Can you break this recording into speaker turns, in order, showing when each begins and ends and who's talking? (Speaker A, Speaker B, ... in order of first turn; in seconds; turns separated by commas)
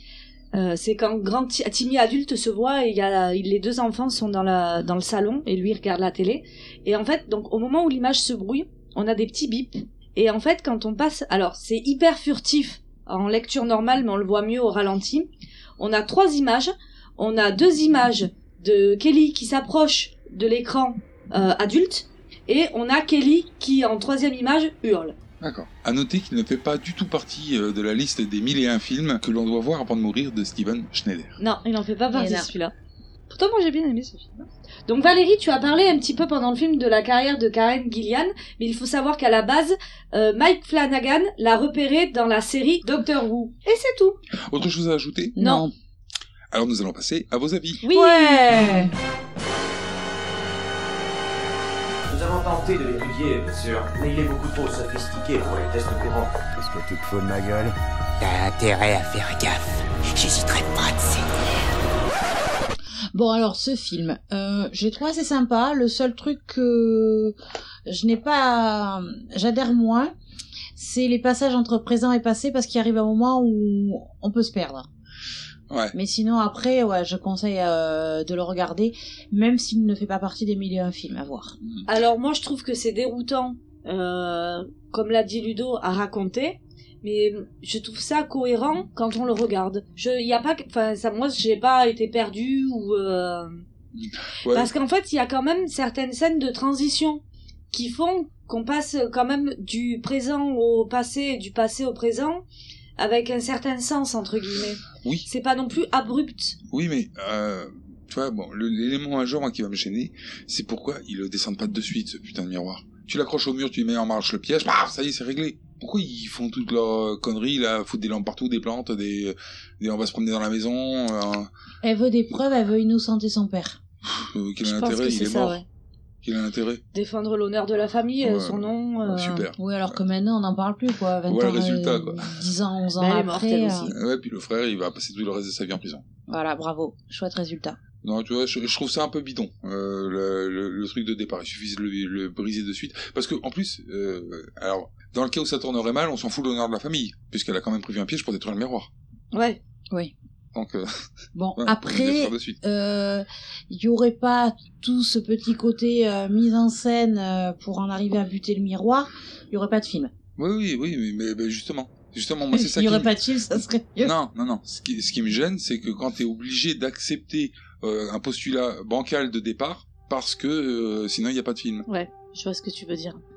Speaker A: 0.5-15.3, Speaker A: 15.8-25.1, Speaker B: 25.4-31.3, Speaker A: 31.4-32.7, Speaker C: 32.1-32.5, Speaker A: 33.3-44.2, Speaker B: 44.5-45.4, Speaker C: 45.4-45.7, Speaker A: 45.4-45.6, Speaker B: 46.5-47.8, Speaker A: 47.8-48.9, Speaker C: 47.9-48.9, Speaker D: 52.1-56.4, Speaker E: 56.5-61.6, Speaker C: 63.1-67.3, Speaker C: 67.9-70.1, Speaker C: 70.8-74.9, Speaker B: 75.7-75.9, Speaker C: 75.9-81.5, Speaker A: 81.8-93.6, Speaker B: 93.9-94.7, Speaker A: 94.5-102.4, Speaker A: 103.0-106.6, Speaker B: 106.7-121.5, Speaker C: 121.8-123.8, Speaker B: 124.0-125.6, Speaker A: 124.6-125.6, Speaker B: 126.2-126.8, Speaker A: 126.9-129.5, Speaker B: 128.2-130.0, Speaker C: 129.6-133.9, Speaker B: 131.3-132.4, Speaker A: 133.0-133.9, Speaker B: 133.8-136.1, Speaker C: 136.3-137.8, Speaker B: 138.0-148.9, Speaker A: 149.3-149.6, Speaker B: 150.5-151.0, Speaker C: 151.3-160.1, Speaker B: 151.6-152.6, Speaker B: 160.4-163.1, Speaker C: 162.5-164.1, Speaker B: 164.0-171.8, Speaker A: 171.9-173.1, Speaker C: 172.3-173.1